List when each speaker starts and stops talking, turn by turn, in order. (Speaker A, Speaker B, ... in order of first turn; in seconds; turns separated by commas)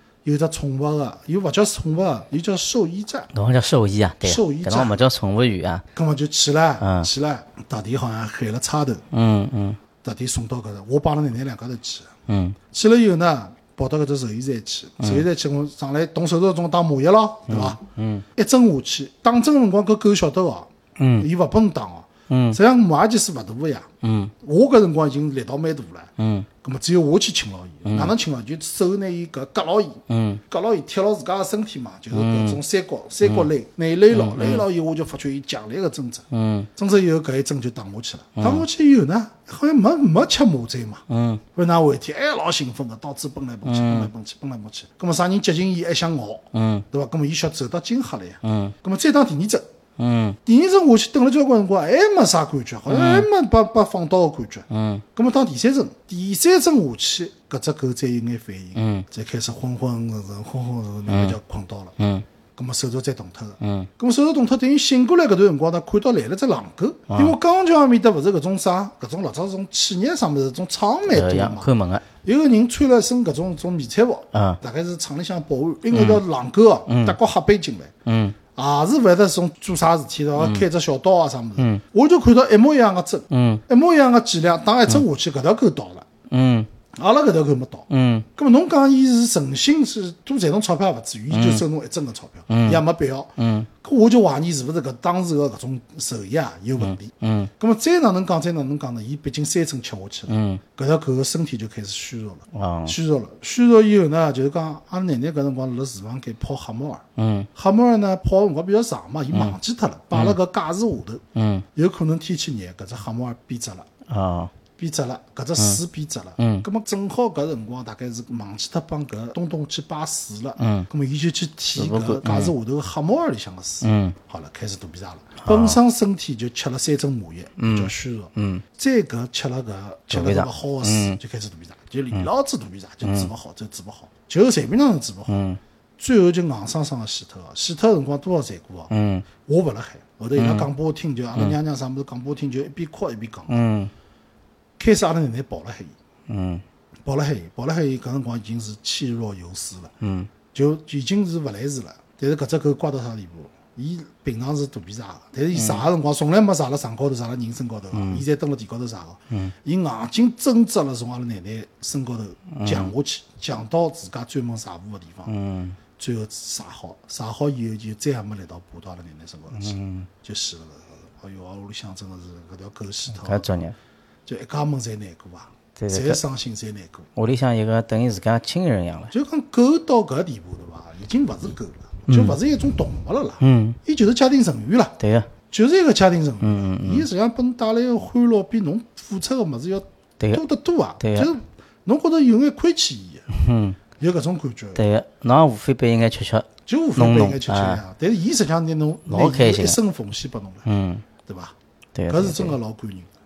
Speaker A: 0.2-3.3, Speaker B: 3.3-5.8, Speaker A: 4.2-5.0, Speaker A: 5.9-9.0, Speaker B: 6.8-7.1, Speaker B: 9.1-9.8, Speaker A: 10.0-12.1, Speaker B: 12.3-12.6, Speaker A: 12.7-17.8, Speaker B: 15.0-15.2, Speaker B: 17.5-18.2, Speaker A: 18.3-23.9, Speaker B: 21.0-21.3, Speaker B: 22.3-22.6, Speaker B: 24.0-24.3, Speaker A: 24.4-49.7, Speaker B: 26.2-26.5, Speaker B: 27.9-28.1, Speaker B: 30.1-30.4, Speaker B: 32.1-32.6, Speaker B: 33.2-33.5, Speaker B: 34.1-34.6, Speaker B: 36.3-36.7, Speaker B: 38.4-38.6, Speaker B: 41.1-41.4, Speaker B: 43.6-44.1, Speaker B: 46.5-46.9, Speaker B: 48.4-48.7, Speaker B: 50.0-50.4, Speaker A: 50.4-61.9, Speaker B: 52.9-53.3, Speaker B: 54.7-55.0, Speaker B: 58.7-59.1, Speaker B: 61.1-61.4, Speaker B: 62.0-62.2, Speaker A: 62.5-71.7, Speaker B: 63.6-63.9, Speaker B: 67.1-67.3, Speaker B: 71.1-72.0, Speaker A: 72.2-77.9, Speaker B: 74.3-74.6, Speaker B: 75.9-76.2, Speaker B: 76.9-77.2, Speaker B: 78.0-78.4, Speaker A: 78.5-86.0, Speaker B: 80.4-80.6, Speaker B: 81.6-81.8, Speaker B: 83.3-83.6, Speaker B: 86.3-86.7, Speaker A: 86.9-111.2, Speaker B: 87.9-88.3, Speaker B: 91.3-91.6, Speaker B: 92.5-92.8, Speaker B: 93.4-93.7, Speaker B: 96.8-97.5, Speaker B: 100.3-100.6, Speaker B: 102.5-103.0, Speaker B: 107.2-107.5, Speaker B: 109.3-109.5, Speaker B: 110.1-110.4, Speaker B: 111.3-111.6, Speaker A: 111.7-113.9, Speaker B: 114.1-114.5, Speaker A: 114.8-135.4, Speaker B: 116.4-116.7, Speaker B: 120.6-120.9, Speaker B: 121.7-122.5, Speaker B: 123.8-124.2, Speaker B: 125.4-125.8, Speaker B: 127.6-128.6, Speaker B: 130.1-131.2, Speaker B: 133.0-133.3, Speaker B: 135.3-135.6, Speaker A: 136.0-138.9, Speaker B: 138.9-139.2, Speaker A: 139.4-143.6, Speaker B: 140.3-140.7, Speaker B: 143.5-143.9, Speaker A: 144.8-145.9, Speaker B: 146.3-146.6, Speaker A: 147.1-149.9, Speaker B: 150.0-150.3, Speaker A: 150.5-165.3, Speaker B: 155.5-155.9, Speaker B: 157.9-158.2, Speaker B: 162.5-162.9, Speaker B: 165.2-165.8, Speaker A: 166.0-173.6, Speaker B: 169.5-170.1, Speaker B: 173.1-173.7, Speaker A: 174.2-177.1, Speaker B: 175.8-176.2, Speaker B: 177.2-179.1, Speaker A: 179.1-185.0, Speaker B: 182.1-182.4, Speaker B: 183.4-183.8, Speaker B: 185.0-185.3, Speaker A: 185.5-193.3, Speaker B: 186.4-187.1, Speaker B: 191.0-191.3, Speaker B: 193.3-193.8, Speaker A: 194.0-194.8, Speaker B: 194.7-197.8, Speaker A: 196.7-200.7, Speaker B: 199.1-199.8, Speaker B: 200.7-201.0, Speaker A: 201.2-201.6, Speaker B: 201.9-202.6, Speaker A: 202.1-203.1